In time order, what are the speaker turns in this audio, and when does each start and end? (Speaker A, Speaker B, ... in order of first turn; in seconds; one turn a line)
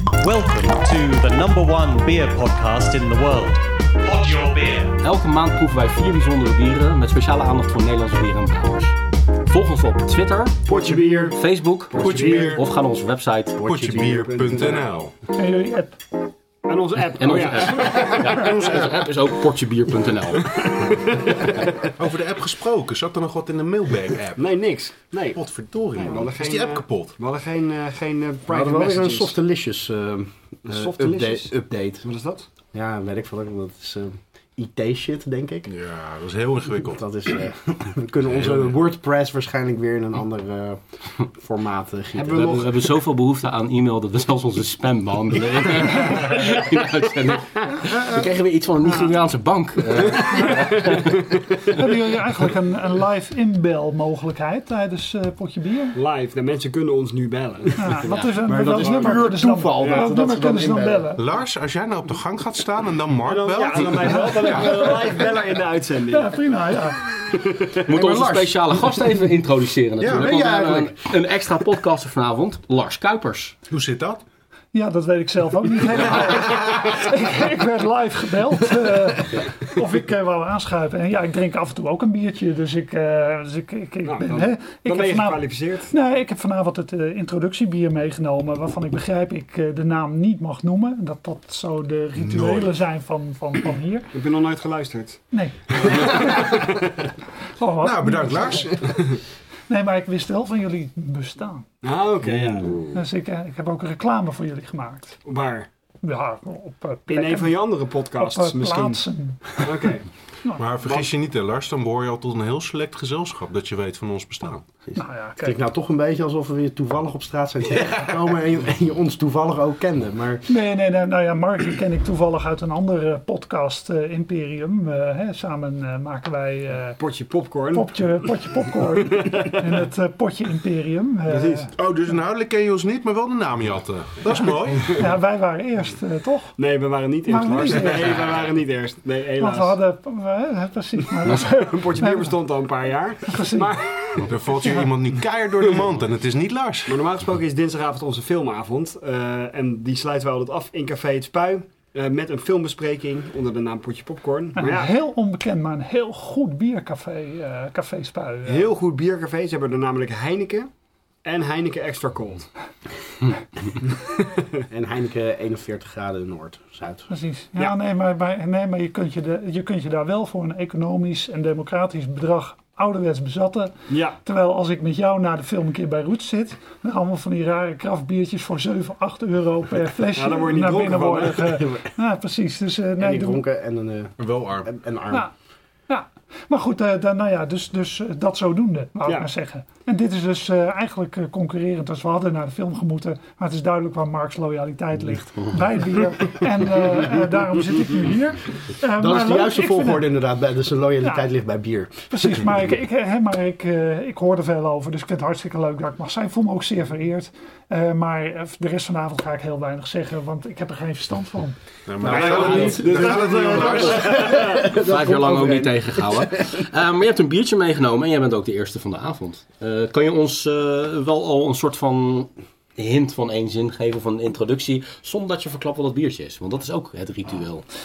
Speaker A: 0.2-5.0
Speaker B: 5.0-13.6
Speaker C: 10.7-11.4
Speaker C: 11.9-12.6
Speaker D: 12.0-12.7
Speaker E: 13.6-14.3
Speaker D: 13.6-15.1
Speaker C: 13.7-14.9
Speaker F: 15.3-16.0
Speaker C: 16.6-18.1
Speaker B: 17.2-20.6
Speaker C: 20.6-21.4
Speaker D: 21.9-24.5
Speaker C: 24.4-25.4
Speaker D: 25.3-27.2
Speaker C: 25.9-29.3
Speaker E: 28.5-32.0
Speaker C: 30.7-32.5
Speaker E: 32.7-35.7
Speaker D: 35.7-37.0
Speaker E: 36.9-42.6
Speaker D: 38.2-38.8
Speaker C: 42.1-42.7
Speaker B: 42.3-51.1
Speaker C: 50.8-51.1
Speaker F: 51.7-56.0
Speaker C: 56.0-58.0
Speaker F: 57.8-61.2
Speaker B: 58.0-58.4
Speaker E: 58.5-61.1
Speaker C: 58.8-59.2
Speaker C: 59.8-60.0
Speaker D: 61.2-65.0
Speaker C: 63.2-66.3
Speaker F: 63.7-65.2
Speaker F: 66.0-67.1
Speaker C: 67.1-68.0
Speaker B: 67.8-73.5
Speaker D: 70.0-70.4
Speaker E: 70.0-70.9
Speaker D: 73.7-74.2
Speaker F: 74.7-94.1
Speaker C: 84.0-85.9
Speaker D: 92.2-92.7
Speaker C: 94.1-95.2
Speaker F: 95.3-96.5
Speaker C: 95.8-97.1
Speaker F: 97.6-98.8
Speaker D: 97.8-98.8
Speaker F: 99.7-101.7
Speaker C: 101.8-102.8
Speaker D: 102.4-102.8
Speaker F: 102.9-105.2
Speaker C: 105.2-105.7
Speaker F: 106.0-110.6
Speaker C: 107.1-109.0
Speaker C: 109.5-110.1
Speaker D: 110.6-115.0
Speaker C: 110.8-111.1
Speaker F: 114.9-115.6
Speaker E: 115.4-120.5
Speaker D: 117.7-118.3
Speaker F: 120.5-127.0
Speaker C: 127.0-128.1
Speaker F: 127.7-131.7
Speaker C: 129.0-129.9
Speaker C: 131.3-131.7
Speaker D: 131.8-135.1
Speaker F: 134.8-136.5
Speaker C: 136.6-139.8
Speaker F: 137.3-138.3
Speaker F: 139.4-142.4
Speaker C: 141.2-144.3
Speaker F: 143.3-144.8
Speaker D: 144.2-147.0
Speaker C: 146.9-154.9
Speaker F: 154.6-158.7
Speaker C: 158.4-160.7
Speaker C: 161.2-162.5
Speaker C: 164.0-164.3
Speaker E: 164.7-167.1
Speaker F: 167.1-173.7
Speaker C: 173.9-174.2
Speaker F: 174.2-183.4
Speaker C: 180.1-181.8
Speaker E: 183.0-185.3
Speaker D: 184.2-184.7
Speaker F: 185.9-200.1
Speaker E: 199.0-202.2
Speaker F: 202.1-211.6
Speaker D: 211.9-214.5
Speaker E: 212.0-216.6
Speaker C: 212.1-214.4
Speaker B: 212.1-213.0
Speaker F: 212.3-212.5
Speaker B: 214.6-227.6